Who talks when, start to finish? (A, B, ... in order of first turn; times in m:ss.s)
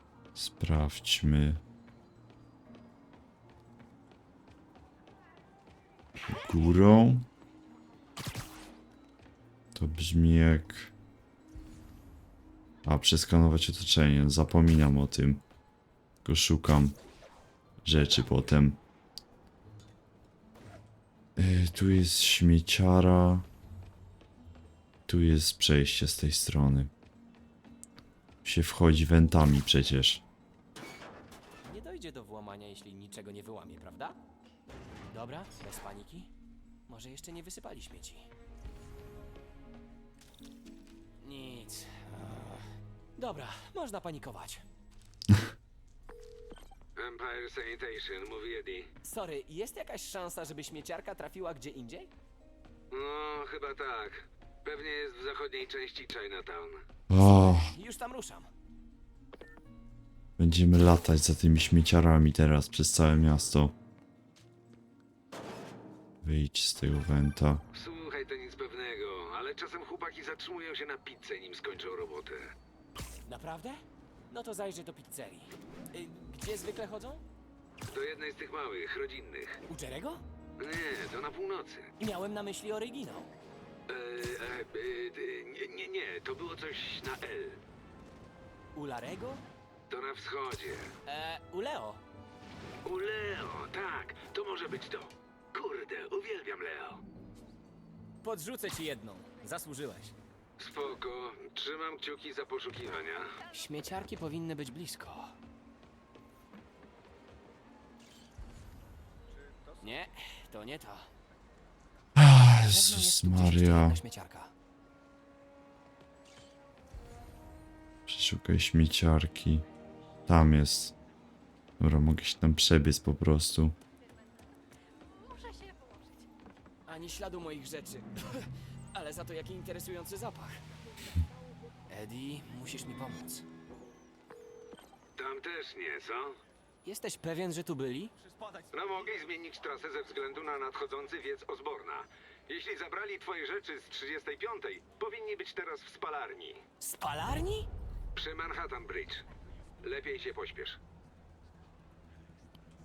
0:00.4-0:01.6 A
0:06.3-0:07.3 A
0:09.8-0:10.9 A
0:12.8-0:15.4 A
0:16.2-0:17.0 A
0:17.8-0:18.8 A
0:21.4-0:23.5 A
0:25.1-0:26.9 A
0:28.4-0:30.2 A
0:31.6-0:34.2 B
0:35.1-0:36.3 B
0:36.9-0:38.3 B
0:41.2-0:42.6 B
0:43.2-0:44.6 B
0:47.0-0:48.9 C
0:49.0-0:52.1 B
0:52.9-0:56.8 C
0:57.1-0:57.7 A
0:57.2-0:58.5 B
1:00.4-1:03.8 A
1:06.2-1:07.6 A
1:07.7-1:12.4 C
1:13.2-1:17.2 B
1:17.9-1:19.6 C
1:19.7-1:20.2 B
1:20.6-1:21.9 C
1:22.0-1:23.3 B
1:23.9-1:27.6 C
1:28.7-1:29.4 B
1:29.9-1:30.9 C
1:31.0-1:32.0 B
1:32.8-1:37.0 C
1:38.2-1:40.2 B
1:40.6-1:43.3 C
1:43.5-1:45.4 B
1:49.8-1:51.1 B
1:52.2-1:54.0 A
1:52.5-1:54.5 B
1:58.1-1:59.6 A
2:00.3-2:01.0 A
2:01.8-2:03.8 A
2:06.8-2:10.7 B
2:11.9-2:13.5 B
2:15.2-2:16.4 C
2:16.8-2:19.1 B
2:18.7-2:26.6 C
2:26.8-2:27.7 B
2:28.2-2:29.2 C
2:29.8-2:30.8 C